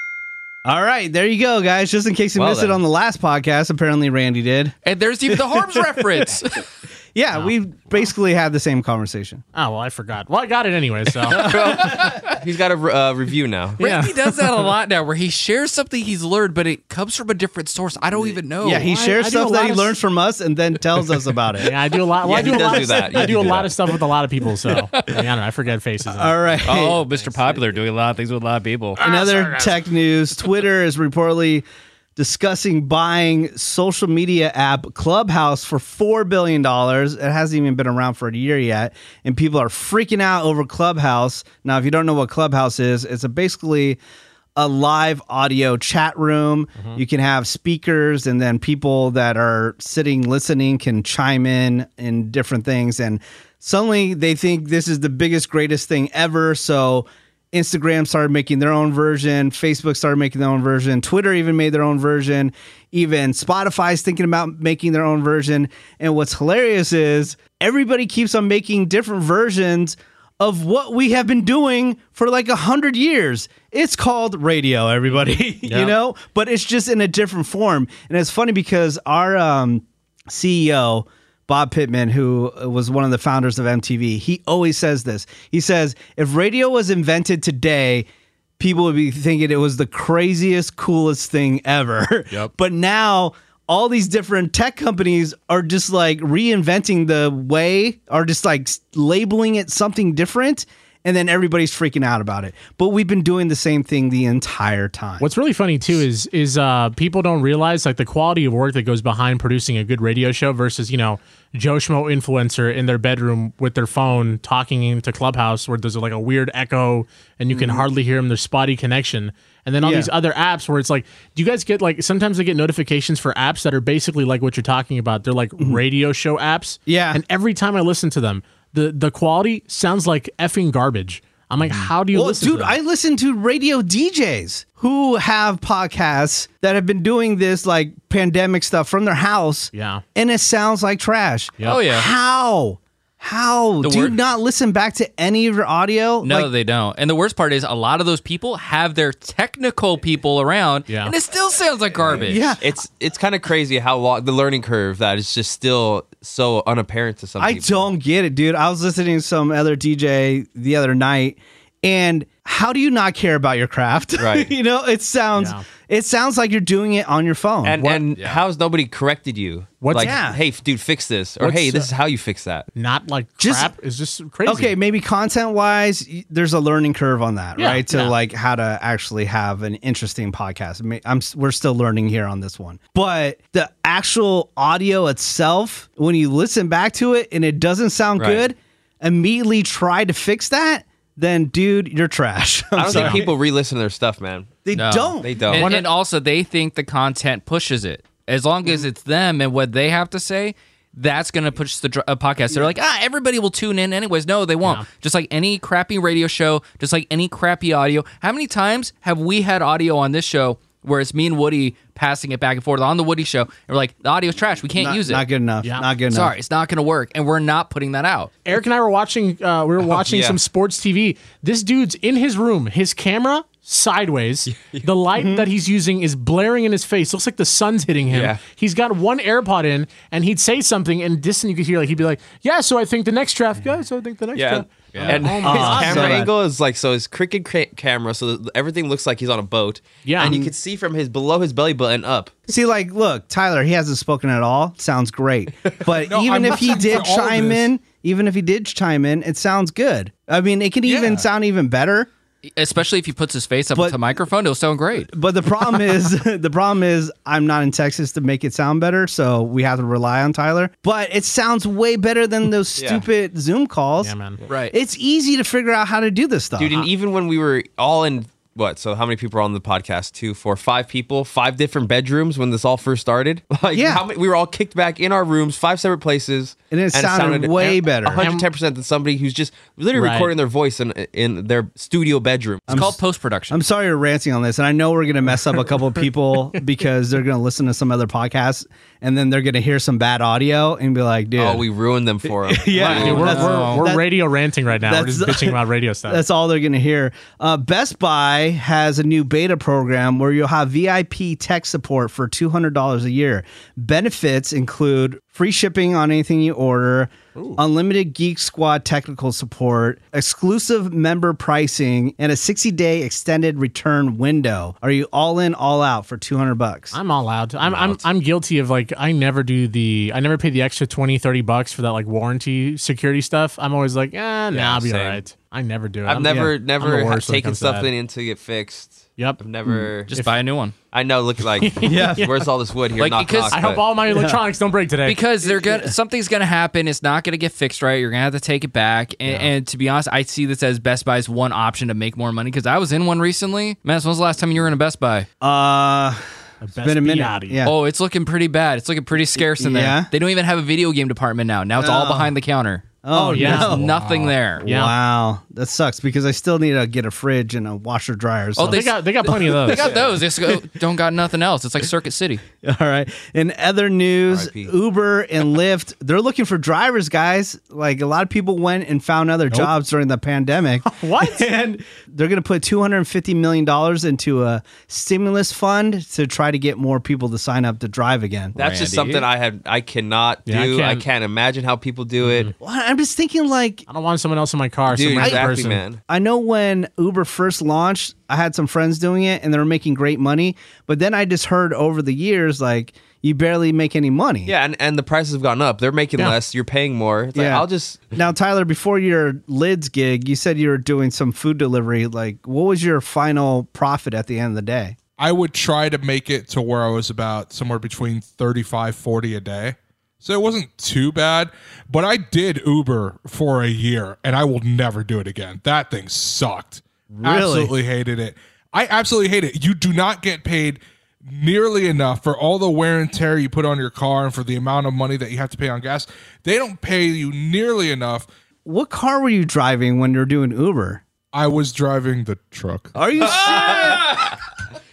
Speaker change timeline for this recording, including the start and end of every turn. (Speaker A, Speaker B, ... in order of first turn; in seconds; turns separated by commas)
Speaker A: 0.6-4.8, Speaker B: 2.4-2.8, Speaker C: 4.8-6.7, Speaker A: 5.3-6.4, Speaker A: 7.1-9.4, Speaker D: 9.5-11.4, Speaker A: 11.3-12.2, Speaker B: 11.3-13.8, Speaker C: 11.4-12.3, Speaker D: 13.8-14.7, Speaker C: 13.8-18.9, Speaker A: 18.6-21.7, Speaker D: 18.8-19.9, Speaker D: 21.6-26.5, Speaker B: 22.2-23.7, Speaker A: 22.4-22.8, Speaker C: 24.9-25.2, Speaker A: 26.1-27.0, Speaker C: 26.6-29.0, Speaker A: 29.0-31.6, Speaker D: 29.0-29.7, Speaker A: 32.1-44.0, Speaker A: 44.5-88.1, Speaker D: 75.7-75.9, Speaker A: 88.6-105.2, Speaker D: 105.2-132.8, Speaker A: 117.5-117.8, Speaker A: 119.8-120.1, Speaker A: 126.9-127.2, Speaker A: 131.7-146.5, Speaker D: 139.7-140.0, Speaker C: 141.6-142.1, Speaker C: 143.8-144.2, Speaker C: 146.2-152.5, Speaker D: 150.9-151.1, Speaker B: 152.1-157.9, Speaker A: 152.1-152.6, Speaker A: 157.4-167.9, Speaker B: 164.2-164.5, Speaker D: 165.3-165.6, Speaker B: 167.6-172.7, Speaker C: 168.1-168.4, Speaker D: 169.8-170.2, Speaker A: 169.9-170.4, Speaker D: 171.4-171.9, Speaker D: 172.7-174.7, Speaker A: 173.4-173.7, Speaker A: 174.4-193.3, Speaker D: 177.6-177.8, Speaker B: 188.2-188.4, Speaker B: 192.7-194.6, Speaker A: 194.6-195.8, Speaker C: 194.7-215.2, Speaker B: 195.2-195.7, Speaker A: 214.8-216.3, Speaker D: 215.6-215.9, Speaker C: 216.1-218.3, Speaker D: 218.4-236.3, Speaker B: 219.8-220.4, Speaker B: 224.5-224.9, Speaker A: 225.1-225.4, Speaker B: 228.1-228.4, Speaker B: 234.3-242.3, Speaker C: 234.9-235.2, Speaker A: 235.4-236.3, Speaker D: 240.0-240.3, Speaker A: 240.2-240.5, Speaker A: 242.5-252.1, Speaker E: 246.0-247.7, Speaker C: 252.6-255.1, Speaker A: 255.1-264.1, Speaker B: 262.8-263.0, Speaker D: 264.0-264.4, Speaker C: 264.5-264.7, Speaker A: 264.7-266.9, Speaker B: 266.6-282.8, Speaker A: 273.7-274.1, Speaker A: 276.7-278.2, Speaker D: 278.1-278.4, Speaker D: 279.9-280.3, Speaker A: 282.7-283.0, Speaker C: 282.7-283.6, Speaker A: 283.5-291.6, Speaker B: 291.4-293.6, Speaker A: 292.2-294.1, Speaker D: 292.8-296.2, Speaker C: 292.9-293.8, Speaker A: 294.8-316.9, Speaker D: 307.3-307.6, Speaker D: 316.9-327.9, Speaker B: 324.5-325.2, Speaker B: 326.0-330.1, Speaker A: 326.2-326.5, Speaker C: 330.1-330.7, Speaker D: 330.1-330.4, Speaker B: 330.9-333.8, Speaker D: 331.6-332.4, Speaker A: 331.8-332.3, Speaker C: 333.0-333.7, Speaker D: 333.5-335.2, Speaker A: 334.1-334.4, Speaker C: 335.0-345.3, Speaker A: 335.4-335.9, Speaker A: 345.4-346.2, Speaker D: 346.6-347.6, Speaker A: 346.8-347.7, Speaker C: 347.6-354.6, Speaker A: 349.4-350.1, Speaker A: 351.8-352.3, Speaker A: 353.0-353.9, Speaker D: 353.1-353.8, Speaker E: 353.8-354.4, Speaker A: 354.6-358.9, Speaker D: 354.6-354.9, Speaker C: 358.6-362.4, Speaker D: 358.6-359.9, Speaker B: 359.7-360.1, Speaker A: 362.6-378.6, Speaker B: 364.3-364.7, Speaker D: 370.8-371.5, Speaker C: 378.6-379.2, Speaker B: 378.6-382.5, Speaker D: 380.5-381.1, Speaker D: 382.2-382.5, Speaker A: 382.6-383.8, Speaker D: 383.9-385.8, Speaker B: 384.9-386.0, Speaker A: 385.2-385.5, Speaker A: 386.1-394.5, Speaker B: 394.4-398.1, Speaker A: 397.3-405.0, Speaker E: 405.2-428.3, Speaker A: 417.1-417.7, Speaker A: 428.6-431.0, Speaker E: 431.3-434.1, Speaker A: 432.9-434.2, Speaker B: 433.2-433.6